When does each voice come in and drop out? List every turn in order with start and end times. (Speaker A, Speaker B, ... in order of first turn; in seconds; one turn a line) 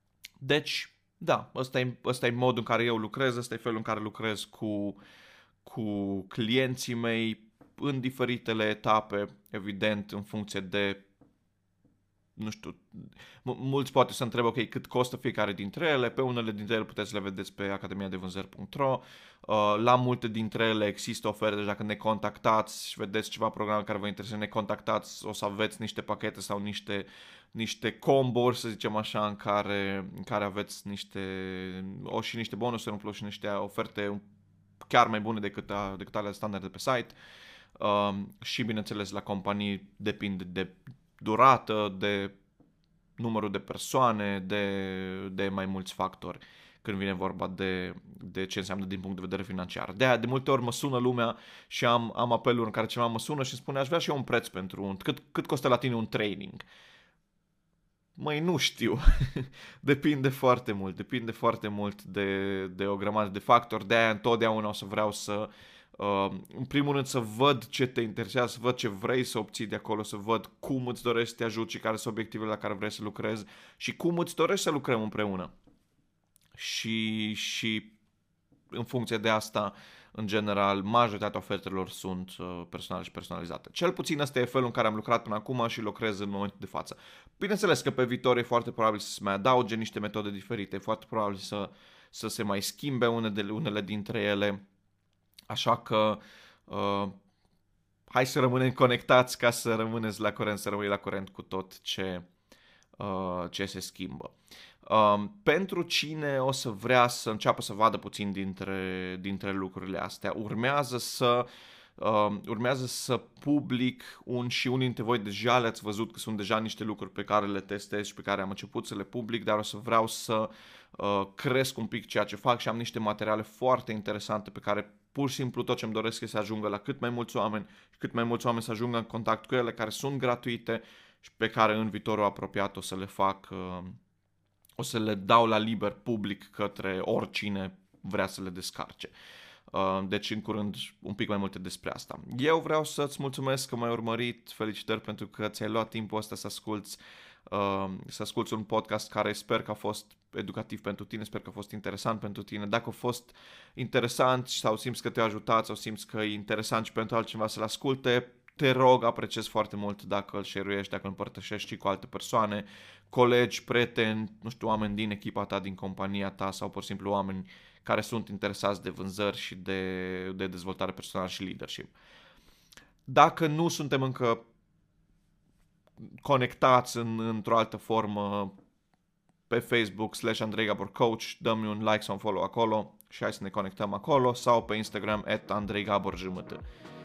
Speaker A: 0.4-5.0
Speaker A: 5.6-11.1
Speaker A: 12.4-34.2
Speaker A: 34.8-37.2
Speaker A: 37.8-42.4
Speaker A: 43.2-56.6
Speaker A: 58.2-75.5
Speaker A: 76.6-77.9
Speaker A: 78.7-94.6
Speaker A: 95.5-97.2
Speaker A: 98.1-102.3
Speaker A: 103.0-104.3
Speaker A: 104.8-111.5
Speaker A: 112.0-134.0
Speaker A: 134.8-139.1
Speaker A: 139.7-171.9
Speaker A: 173.1-174.4
Speaker A: 176.2-178.5
Speaker A: 179.5-186.6